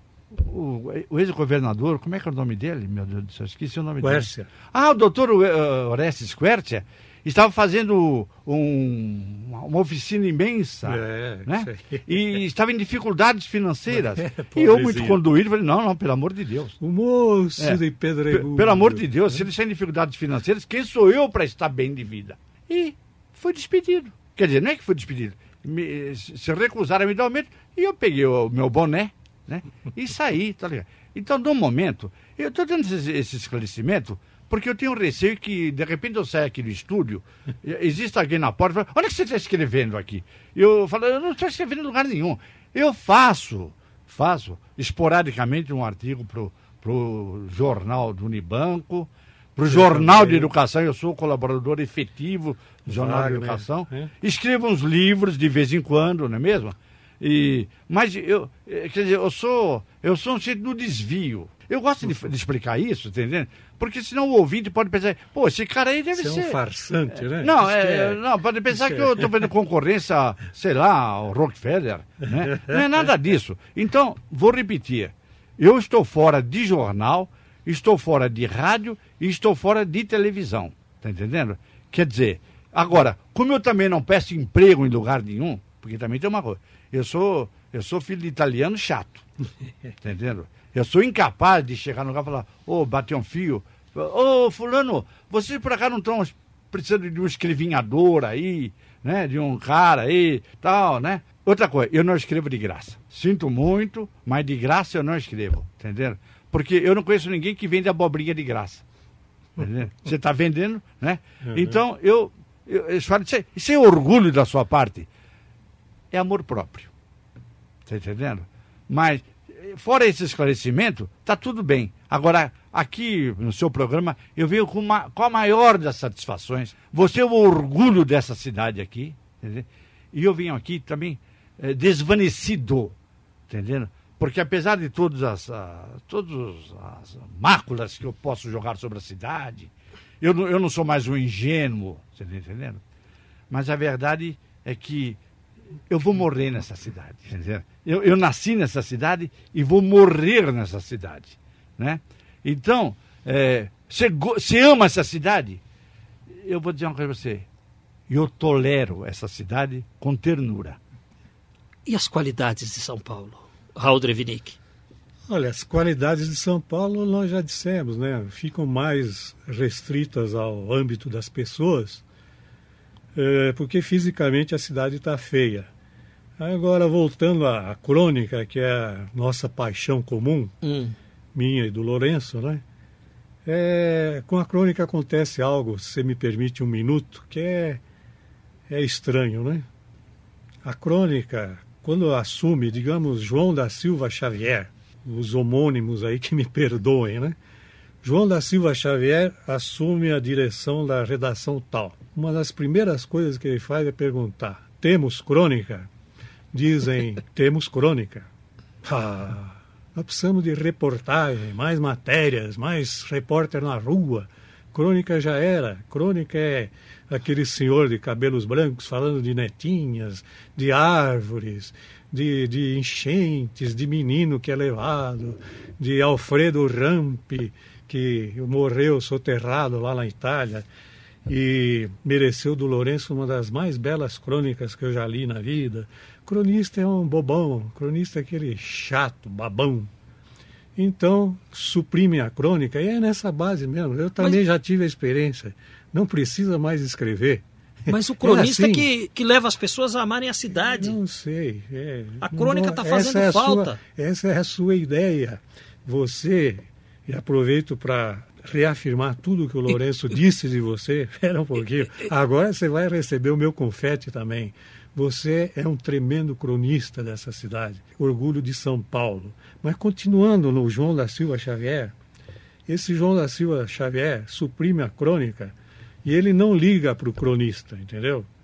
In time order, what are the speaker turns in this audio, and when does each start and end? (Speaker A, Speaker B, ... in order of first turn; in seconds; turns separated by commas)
Speaker A: 0.3-16.8, Speaker B: 4.0-4.5, Speaker B: 10.8-12.0, Speaker B: 13.9-15.2, Speaker B: 16.8-19.4, Speaker A: 17.6-66.6, Speaker B: 49.7-50.5, Speaker B: 52.9-54.1, Speaker B: 66.2-68.2, Speaker A: 67.4-89.2, Speaker B: 68.7-69.2, Speaker A: 90.0-108.8, Speaker A: 109.6-115.1, Speaker B: 111.5-111.8, Speaker A: 116.1-116.9, Speaker A: 117.9-132.9, Speaker A: 133.5-142.8, Speaker A: 143.5-145.2, Speaker A: 145.9-155.6, Speaker A: 156.4-157.5, Speaker A: 158.1-160.8, Speaker C: 161.9-164.6, Speaker B: 165.3-172.0, Speaker B: 173.2-175.7, Speaker B: 176.4-180.6, Speaker C: 180.6-180.9, Speaker B: 181.3-182.6, Speaker B: 183.4-187.8, Speaker B: 188.7-189.7, Speaker B: 190.6-197.4, Speaker B: 198.0-205.9, Speaker B: 206.5-208.3, Speaker B: 208.8-230.7, Speaker B: 231.3-239.9, Speaker B: 240.8-247.4, Speaker C: 247.9-251.0, Speaker B: 248.2-248.9, Speaker B: 250.7-271.9, Speaker C: 252.2-253.8, Speaker B: 272.7-278.3